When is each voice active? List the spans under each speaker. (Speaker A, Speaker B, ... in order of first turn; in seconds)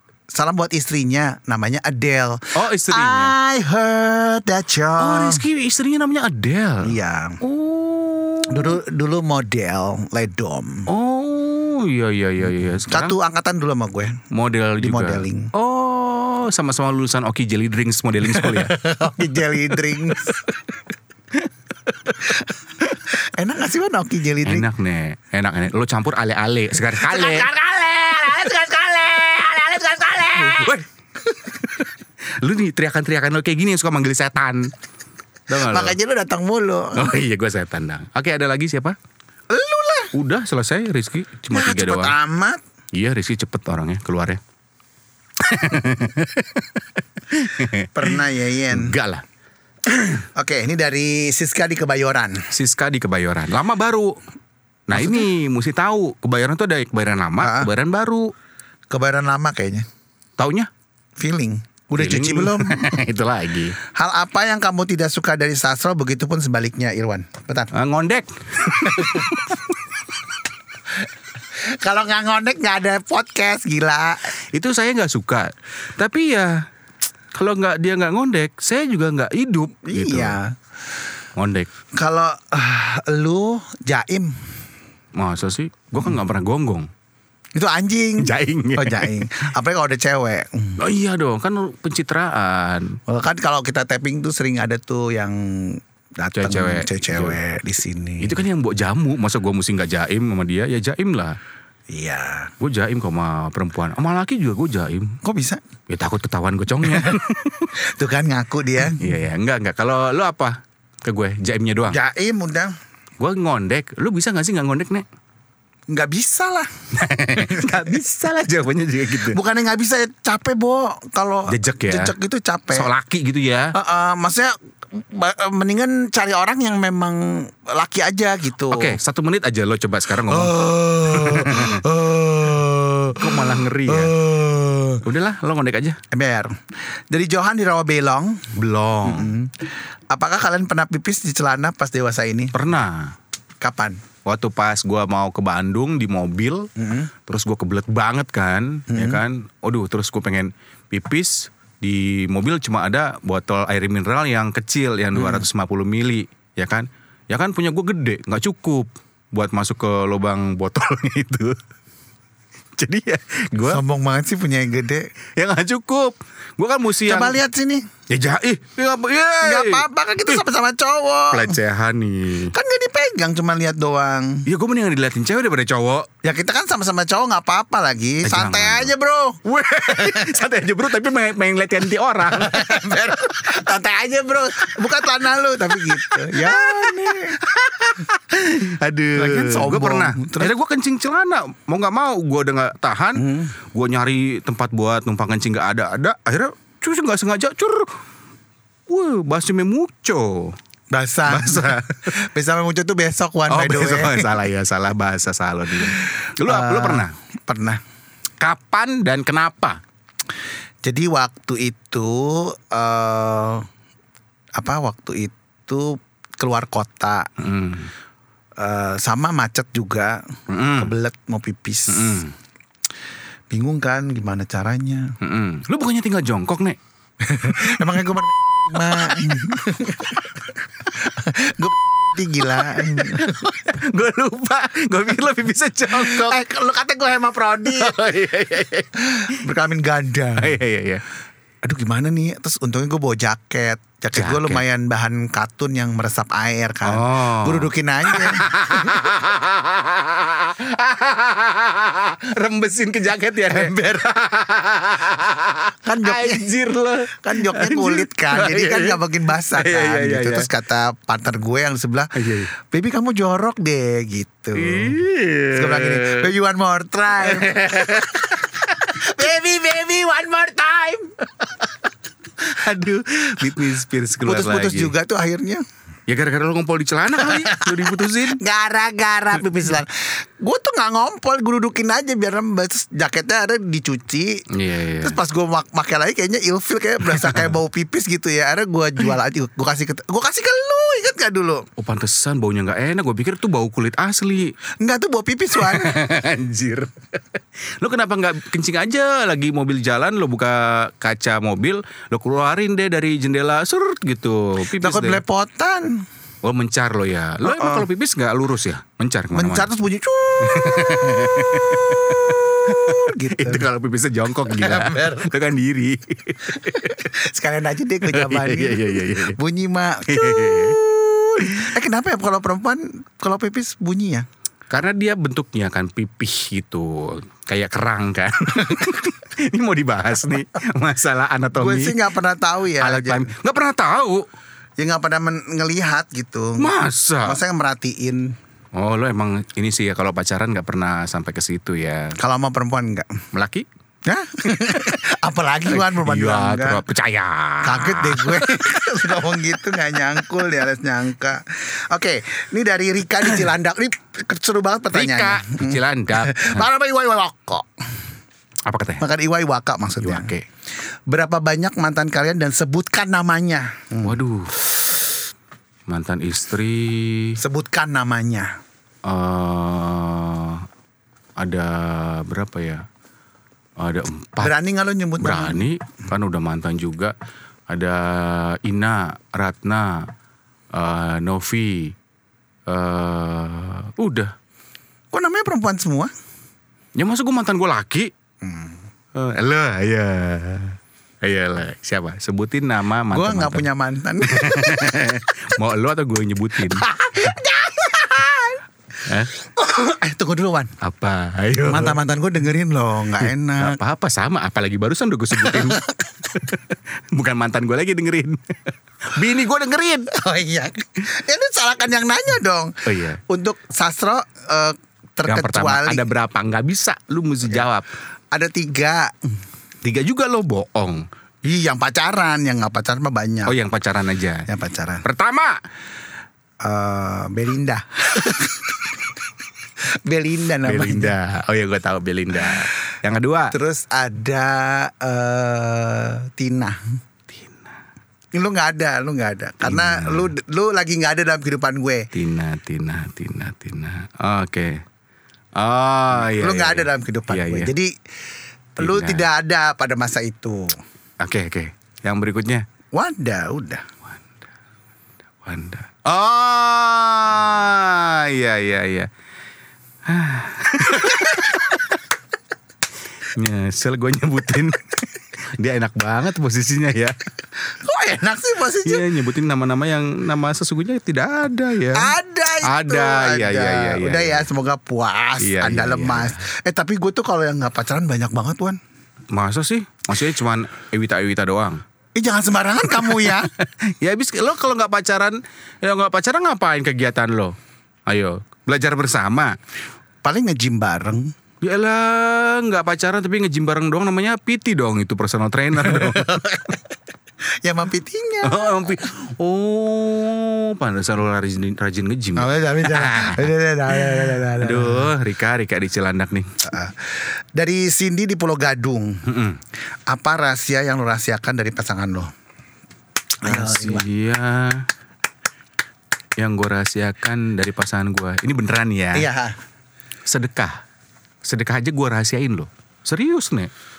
Speaker A: 0.3-5.4, 6.8-7.4, 8.5-10.9, 12.9-14.2, 14.8-15.5, 18.3-20.5, 23.1-24.7, 26.9-30.8, 35.5-37.1, 39.5-40.1, 41.5-42.6, 47.9-48.9, 50.1-52.5, 54.9-55.3, 57.4-57.7, 58.9-59.8, 61.2-62.9, 63.9-67.7, 68.9-69.3, 71.7-74.3, 79.8-80.5, 82.0-84.4, 87.5-90.8, 93.1-98.4, 101.9-102.5, 105.2-105.6, 106.9-107.2, 107.9-109.0, 111.9-112.7, 115.9-116.7, 117.4-117.8, 119.3-122.9, 123.7-128.9, 130.3-135.0, 136.1-136.6, 137.1-138.5, 139.0-142.7, 143.6-144.0, 146.8-147.1, 148.9-149.2, 155.2-155.4, 163.7-165.1, 167.1-167.8, 169.4-171.6, 172.5-174.4, 176.2-179.4, 182.3-187.4, 189.2-190.5, 193.2-193.5, 200.9-204.3, 206.2-207.8, 210.8-213.6, 214.6-217.3, 218.6-220.2, 220.8-222.2, 223.5-225.1, 227.2-230.3, 230.8-233.4, 235.9-237.9, 239.0-240.6, 241.6-249.1, 253.5-254.0, 255.8-256.5, 257.1-265.0, 265.5-271.1, 274.2-275.6, 277.2-284.4, 285.0-291.6, 294.8-295.9, 304.8-306.0, 307.4-307.9, 309.3-311.1, 312.2-313.7, 314.5-315.3, 316.6-324.2, 331.6-333.3, 334.8-336.7, 337.2-338.3, 342.2-343.1, 344.0-346.8, 347.6-357.6, 359.0-360.3, 361.1-364.2, 367.4-368.5, 374.4-375.7, 385.1-386.1, 388.4-388.8, 393.1-395.0, 396.6-398.6, 399.4-400.7, 401.6-403.8, 405.4-406.3, 410.1-412.7, 413.3-416.1, 418.3-419.1, 421.4-423.5, 424.5-425.0, 426.6-428.8, 430.1-431.1, 433.5-436.8, 438.3-442.1, 446.2-447.9, 448.8-450.8, 452.9-453.8, 467.6-469.0, 471.9-478.8, 482.1-483.5, 490.2-491.3, 495.8-496.8, 497.6-498.9, 502.4-505.1, 506.6-509.2, 510.1-512.3, 513.4-514.0, 519.1-519.5
Speaker B: 2.5-3.3, 5.0-8.8, 10.9-13.1, 14.3-18.8, 19.5-20.5, 24.4-27.5, 30.3-30.8, 32.4-34.7, 35.5-36.0, 36.9-39.0, 40.1-42.1, 42.9-44.4, 45.4-49.2, 52.5-54.2, 54.9-58.3, 60.4-60.7, 62.0-63.8, 67.7-69.7, 74.5-76.7, 77.3-80.4, 81.3-81.7, 85.2-86.9, 88.2-89.2, 90.8-93.0, 96.3-97.4, 98.2-101.4, 102.6-105.2, 105.9-107.7, 108.8-112.0, 113.2-115.0, 117.0-119.4, 121.5-122.1, 122.7-123.7, 128.7-131.8, 133.2-134.2, 135.0-136.0, 138.5-139.3, 142.5-143.1, 144.2-146.7, 147.3-161.6, 162.8-163.8, 165.4-167.4, 168.1-170.4, 171.3-172.5, 174.5-176.1, 178.2-178.9, 179.4-183.2, 185.8-197.9, 198.9-200.6, 201.3-202.0, 203.5-207.1, 208.4-209.8, 217.4-217.9, 220.5-220.9, 221.9-222.3, 225.2-226.8, 228.9-229.4, 232.5-236.4, 237.7-239.4, 240.4-241.0, 244.1-244.6, 246.8-260.5, 262.1-262.5, 264.5-266.3, 267.2-268.6, 272.4-274.9, 276.1-278.4, 284.5-285.2, 287.1-287.5, 291.8-294.5, 295.5-305.2, 306.4-309.7, 310.4-317.1, 318.1-319.4, 320.1-320.8, 321.4-321.7, 324.7-332.0, 332.8-334.2, 336.6-337.4, 338.7-342.2, 343.3-343.7, 345.6-349.1, 354.9-356.7, 358.6-359.0, 360.0-360.4, 364.0-364.6, 365.9-367.4, 369.1-370.6, 371.4-372.8, 373.8-374.5, 375.2-377.1, 377.7-380.1, 380.7-381.9, 382.7-384.3, 386.9-388.1, 389.1-393.6, 394.2-396.8, 399.1-399.3, 400.8-402.0, 403.2-410.1, 412.9-413.2, 415.2-417.9, 419.8-421.1, 423.4-424.5, 425.0-425.6, 430.6-433.5, 437.3-437.7, 439.6-440.3, 442.1-444.8, 445.6-447.7, 448.8-449.3, 451.2-452.6, 455.4-459.1, 460.1-461.9, 463.3-467.1, 468.8-474.5, 475.4-476.4, 479.3-481.8, 482.9-487.5, 488.1-489.6, 491.6-496.4, 498.4-506.5, 509.2-509.6, 513.4-514.9, 516.4-519.3, 520.3-520.8, 521.4-523.7